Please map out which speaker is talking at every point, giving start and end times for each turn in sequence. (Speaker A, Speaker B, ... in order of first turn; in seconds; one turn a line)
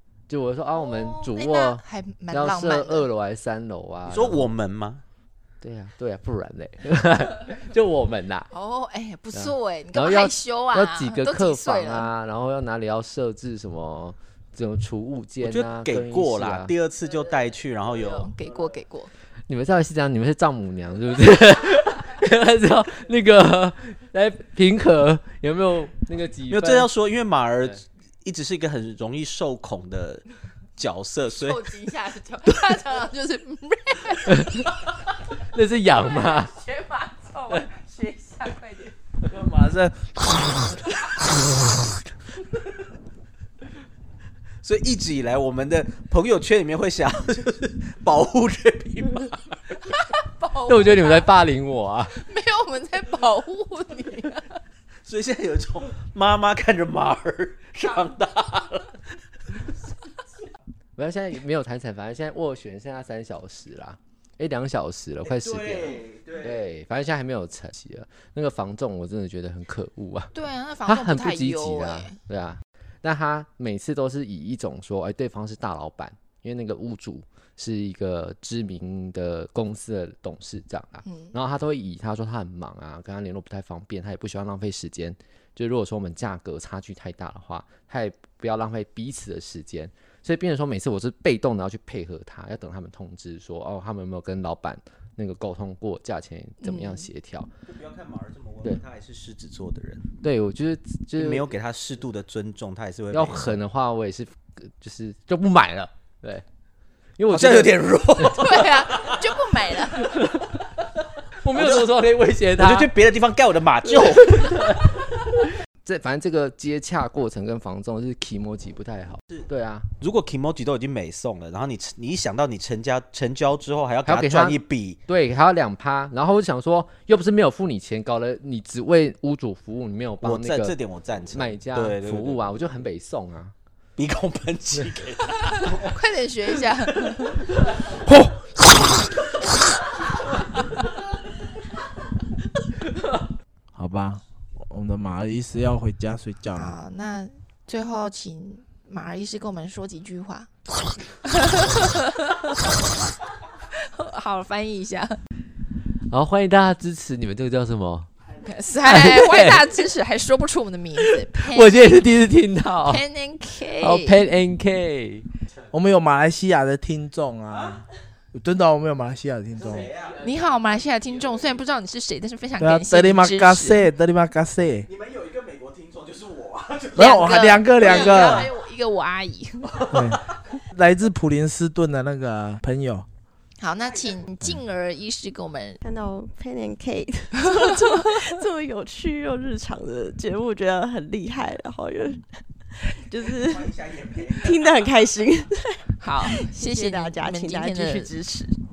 Speaker A: 0.3-4.5
Speaker B: 0.8-3.1
Speaker C: 4.0-5.0
Speaker A: 5.6-8.5
Speaker B: 8.5-12.1
Speaker A: 9.3-16.7
Speaker C: 15.4-18.3
Speaker B: 17.9-19.1
Speaker A: 19.5-26.9
Speaker C: 26.5-30.2
Speaker C: 30.8-31.6
Speaker B: 31.4-34.6
Speaker A: 34.3-34.7
Speaker A: 35.3-36.5
Speaker B: 36.2-38.9
Speaker C: 39.2-41.8
Speaker C: 44.6-49.7
Speaker B: 50.2-51.3
Speaker A: 50.7-52.1
Speaker B: 52.1-54.6
Speaker C: 55.0-59.0
Speaker A: 61.0-70.3
Speaker C: 65.2-66.6
Speaker B: 70.3-72.1
Speaker A: 70.9-97.5
Speaker B: 81.0-81.3
Speaker B: 96.6-97.0
Speaker C: 97.7-100.1
Speaker A: 100.2-101.5
Speaker C: 101.2-103.5
Speaker A: 103.1-106.4
Speaker A: 107.2-108.4
Speaker C: 107.3-109.2
Speaker B: 108.2-110.2
Speaker A: 110.0-110.7
Speaker A: 111.4-112.9
Speaker C: 111.5-111.9
Speaker C: 112.6-114.5
Speaker A: 113.8-119.9
Speaker C: 120.0-125.0
Speaker A: 124.0-130.7
Speaker C: 130.2-132.5
Speaker A: 131.3-133.5
Speaker C: 134.0-135.9
Speaker B: 135.3-137.4
Speaker D: 138.0-139.2
Speaker D: 143.7-146.7
Speaker B: 146.6-150.5
Speaker B: 151.2-152.6
Speaker B: 153.8-155.2
Speaker A: 156.1-158.1
Speaker B: 158.4-162.1
Speaker A: 158.8-159.7
Speaker A: 161.0-163.0
Speaker B: 162.8-164.2
Speaker A: 163.8-165.3
Speaker D: 165.7-169.9
Speaker C: 169.6-170.3
Speaker B: 170.2-173.9
Speaker D: 172.6-174.9
Speaker C: 174.8-178.5
Speaker D: 176.9-178.5
Speaker B: 176.9-179.9
Speaker D: 179.9-183.1
Speaker B: 183.6-185.8
Speaker E: 185.8-192.2
Speaker B: 187.5-188.2
Speaker E: 192.8-198.5
Speaker C: 193.4-194.9
Speaker B: 196.0-198.1